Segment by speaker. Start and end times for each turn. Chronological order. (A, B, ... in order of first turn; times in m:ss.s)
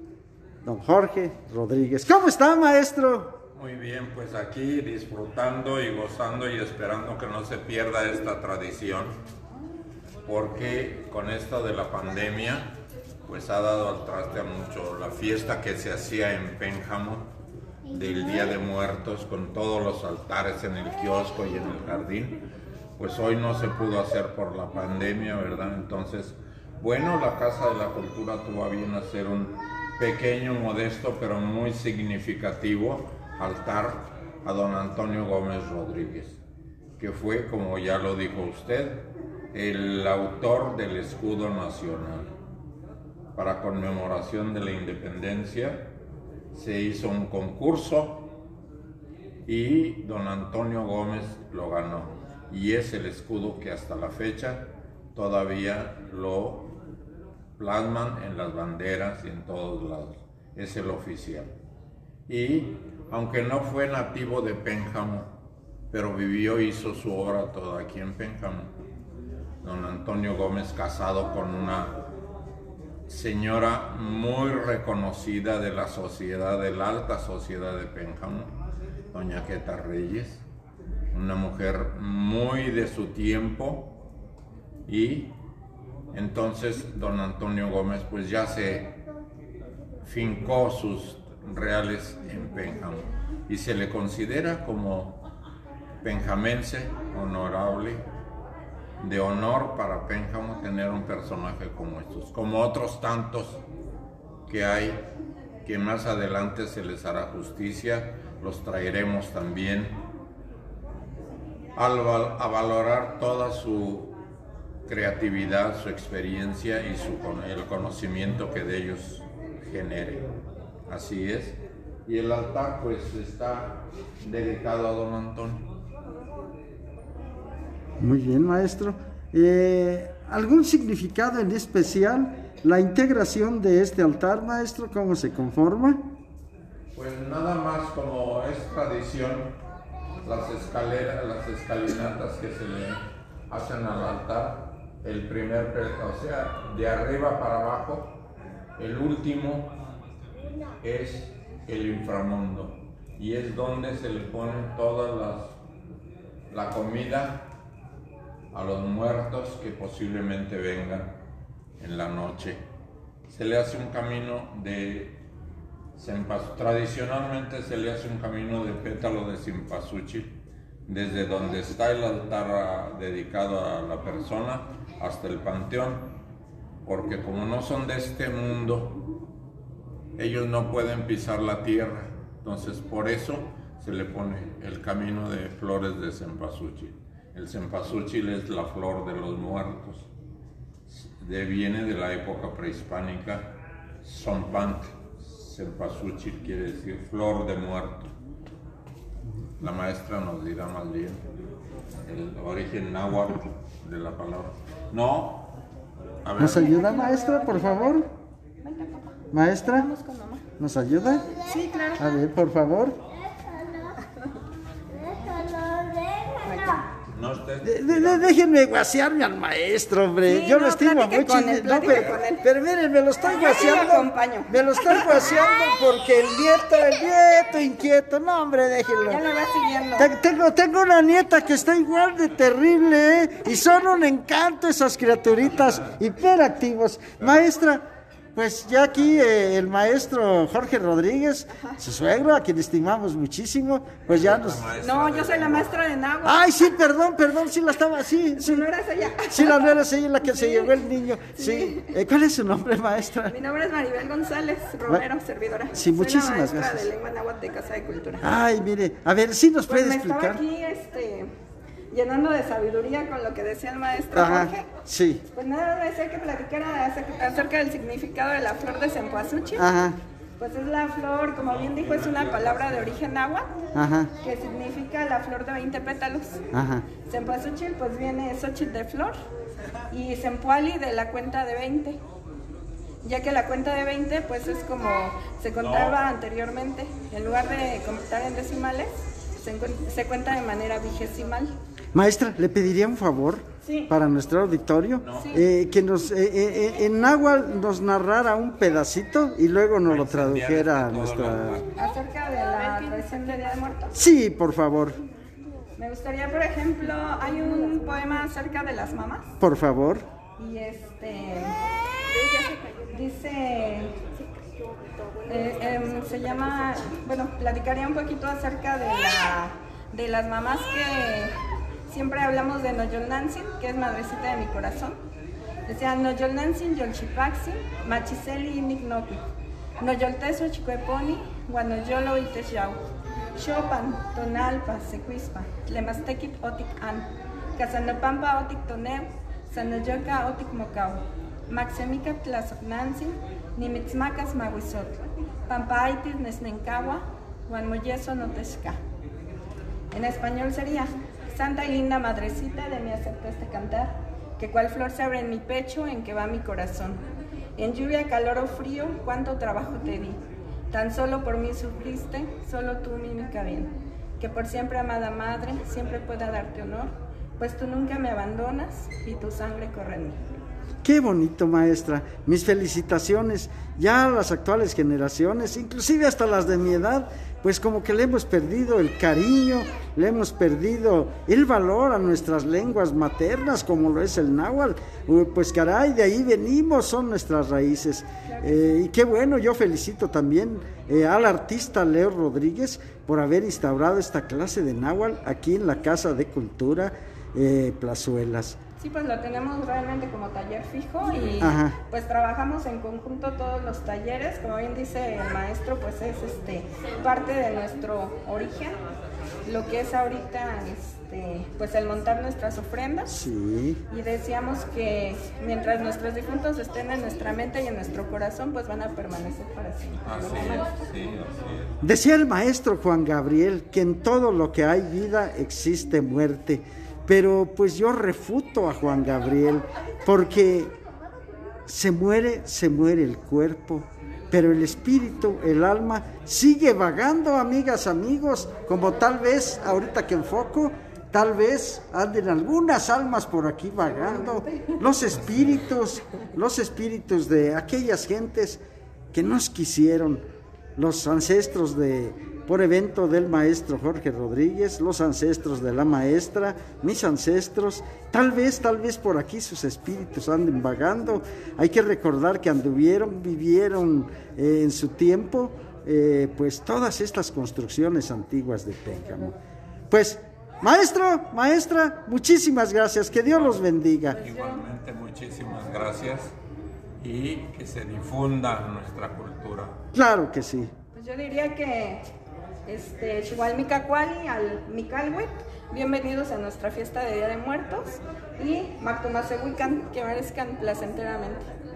0:00.6-0:03.4 A
0:03.6-0:09.2 B
0:10.3-0:12.8 B
0:13.3-0:17.3 B
0:17.9-0:22.4 B
0:23.0-0:36.4 B
0:37.0-0:42.3 B
0:43.4-0:45.9 B
0:46.5-0:48.3 B
0:49.5-0:56.8 B
0:57.6-1:01.6 B
1:02.3-1:05.4 B
1:05.9-1:08.8 B
1:09.6-1:12.0 B
1:13.1-1:18.6 B
1:19.1-1:20.4 B
1:21.1-1:24.0 B
1:24.9-1:25.4 B
1:26.1-1:29.0 B
1:30.0-1:35.2 B
1:36.0-1:38.1 B
1:39.0-1:43.6 B
1:44.5-1:45.1 B
1:45.6-1:50.0 B
1:51.8-1:54.2 B
1:54.9-2:00.3 B
2:00.9-2:05.7 B
2:08.0-2:16.0 A
2:16.9-2:19.6 B
2:20.2-2:28.2 B
2:28.8-2:29.7 B
2:30.8-2:35.6 B
2:36.5-2:37.5 B
2:38.5-2:41.2 B
2:41.8-2:42.6 B
2:43.3-2:45.2 B
2:46.0-2:56.2 B
2:56.8-2:59.0 B
3:00.2-3:10.1 B
3:10.9-3:18.1 B
3:19.6-3:21.2 B
3:22.0-3:25.5 B
3:26.2-3:26.7 B
3:26.4-3:28.1 A
3:26.5-3:28.1 C
3:28.6-3:30.4 C
3:29.3-3:29.9 A
3:30.6-3:31.4 A
3:31.4-3:32.1 C
3:32.0-3:33.0 A
3:36.4-3:36.9 C
3:37.1-3:38.4 B
3:37.6-3:49.2 A
3:40.2-3:42.4 C
3:43.2-3:45.2 C
3:49.1-3:50.1 C
3:50.0-3:57.8 A
3:58.4-4:04.7 A
4:04.1-4:05.7 B
4:04.8-4:06.8 C
4:06.2-4:08.7 A
4:08.4-4:10.8 C
4:09.3-4:13.3 A
4:11.4-4:12.0 C
4:13.2-4:18.3 C
4:15.7-4:16.9 A
4:18.2-4:20.4 A
4:19.7-4:21.3 C
4:21.9-4:24.7 C
4:24.1-4:25.2 A
4:25.3-4:29.8 C
4:29.6-4:30.0 A
4:30.4-4:33.6 C
4:31.4-4:32.8 B
4:33.8-4:34.1 A
4:34.2-4:36.4 C
4:36.5-4:36.8 A
4:37.0-4:39.2 C
4:39.9-4:42.0 C
4:43.0-4:51.5 C
4:45.6-4:46.0 B
4:51.9-5:01.6 A
4:53.6-4:53.9 C
4:55.0-4:55.4 B
4:55.1-4:55.4 C
4:59.9-5:01.7 B
5:01.8-5:04.0 C
5:03.9-5:05.0 A
5:05.8-5:09.3 C
5:09.4-5:10.0 A
5:10.4-5:11.6 C
5:12.1-5:14.0 C
5:15.2-5:21.4 C
5:21.9-5:25.0 C
5:25.7-5:29.2 C
5:29.8-5:32.8 C
5:33.3-5:48.8 C
5:49.9-5:57.0 C
5:57.6-6:10.2 C
6:10.8-6:38.6 A
6:28.2-6:28.7 C
6:38.8-6:48.8 C
6:41.4-6:41.8 A
6:49.4-6:53.1 C
6:53.1-6:53.8 A
6:53.9-7:00.8 C
7:00.0-7:01.8 B
7:01.8-7:10.7 A
7:11.7-7:28.6 A
7:29.1-7:30.2 A
7:30.8-7:49.4 A
7:49.9-7:54.2 A
7:54.2-7:54.6 C
7:54.2-7:56.4 B
7:57.0-7:59.8 B
7:59.9-8:00.7 A
8:00.9-8:02.0 C
8:02.7-8:11.6 C